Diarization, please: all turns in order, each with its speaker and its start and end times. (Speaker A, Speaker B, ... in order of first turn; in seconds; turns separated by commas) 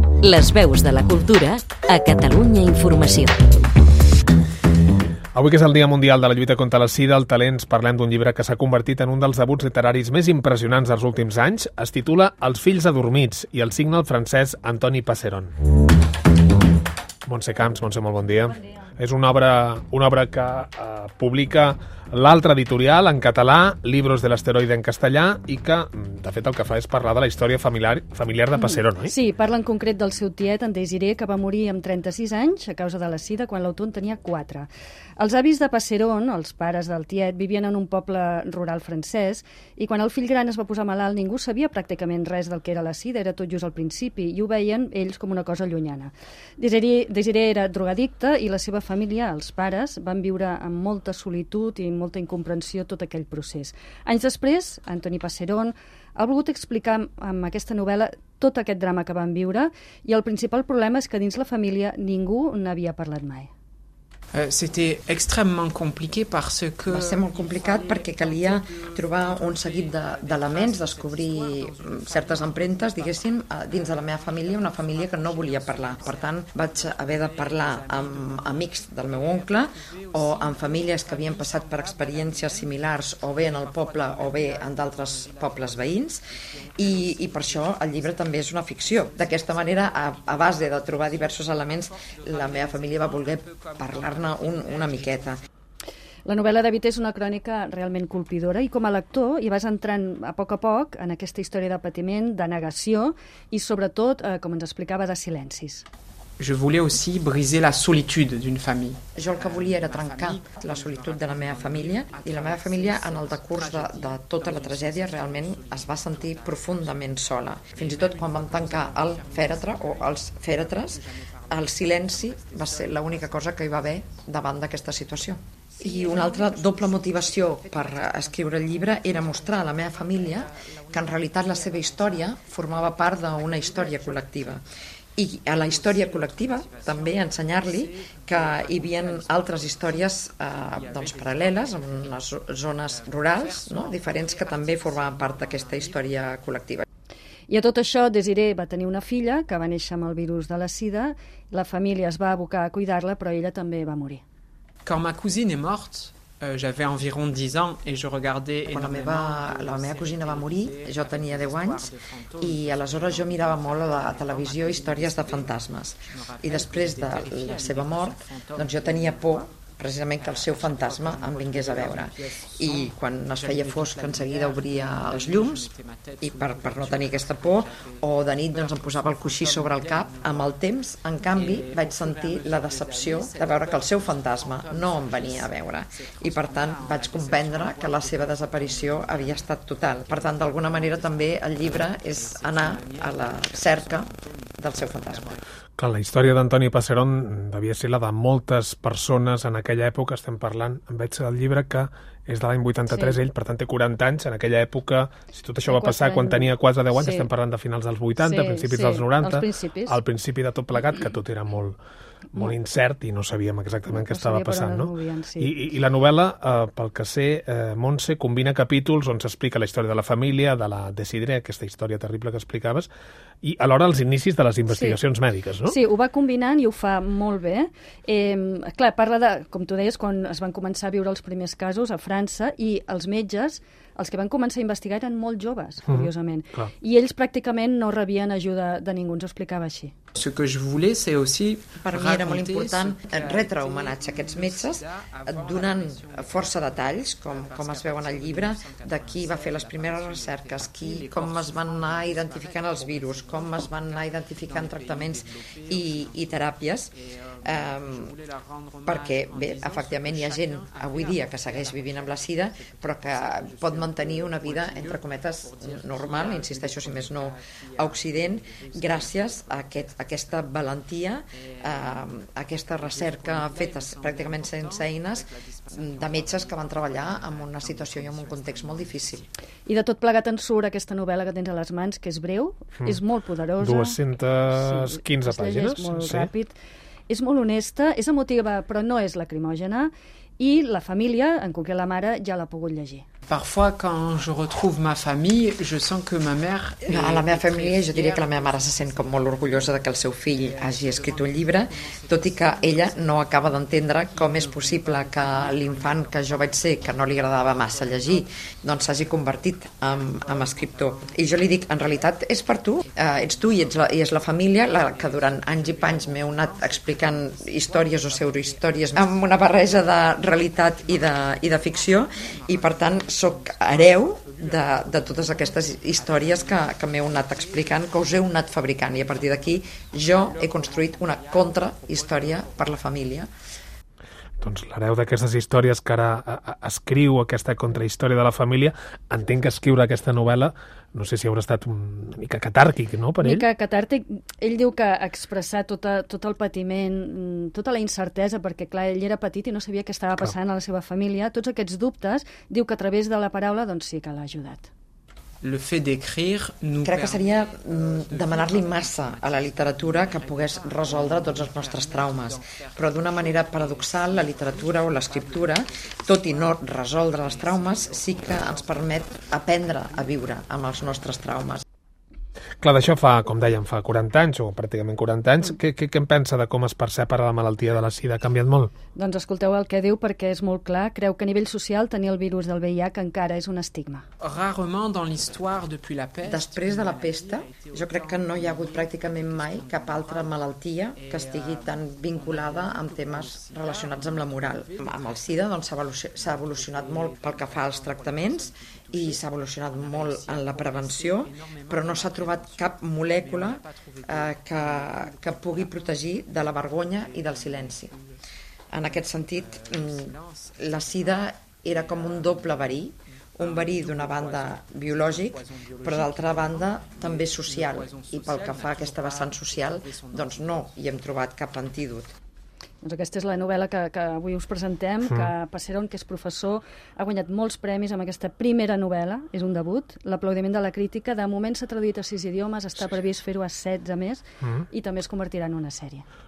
Speaker A: 0.2-3.5, Speaker B: 5.3-15.5, Speaker B: 17.3-29.1, Speaker C: 28.5-63.5, Speaker D: 64.3-95.4, Speaker E: 66.9-86.2, Speaker E: 86.8-95.4, Speaker C: 96.3-105.8, Speaker D: 106.4-124.3, Speaker E: 109.2-134.6, Speaker D: 125.7-134.6, Speaker E: 135.2-146.8, Speaker D: 135.5-142.2, Speaker D: 142.8-146.2, Speaker C: 147.5-154.2, Speaker D: 154.8-180.6, Speaker E: 158.7-175.7, Speaker E: 176.2-195.4, Speaker D: 181.2-195.4, Speaker B: 195.8-211.8, Speaker C: 202.9-203.2, Speaker C: 205.7-207.3, Speaker C: 208.2-210.0, Speaker B: 212.3-222.9, Speaker C: 213.9-215.5, Speaker B: 223.4-225.8, Speaker C: 224.7-225.0, Speaker C: 225.7-239.9, Speaker B: 235.9-236.7, Speaker D: 240.1-270.7, Speaker E: 241.8-256.9, Speaker E: 257.4-258.1, Speaker E: 258.9-279.2, Speaker D: 271.3-279.3, Speaker C: 279.7-286.6, Speaker B: 283.6-286.3, Speaker C: 287.1-293.1, Speaker D: 293.3-332.9, Speaker E: 296.9-333.3, Speaker B: 334.4-343.5, Speaker C: 343.2-354.7, Speaker D: 355.4-370.3, Speaker E: 356.8-371.6, Speaker B: 372.6-378.7, Speaker C: 378.9-384.1, Speaker D: 384.2-390.4, Speaker E: 386.2-407.9, Speaker D: 390.9-395.5, Speaker D: 396.1-408.2, Speaker E: 408.7-422.1, Speaker D: 408.8-420.7, Speaker C: 422.8-436.1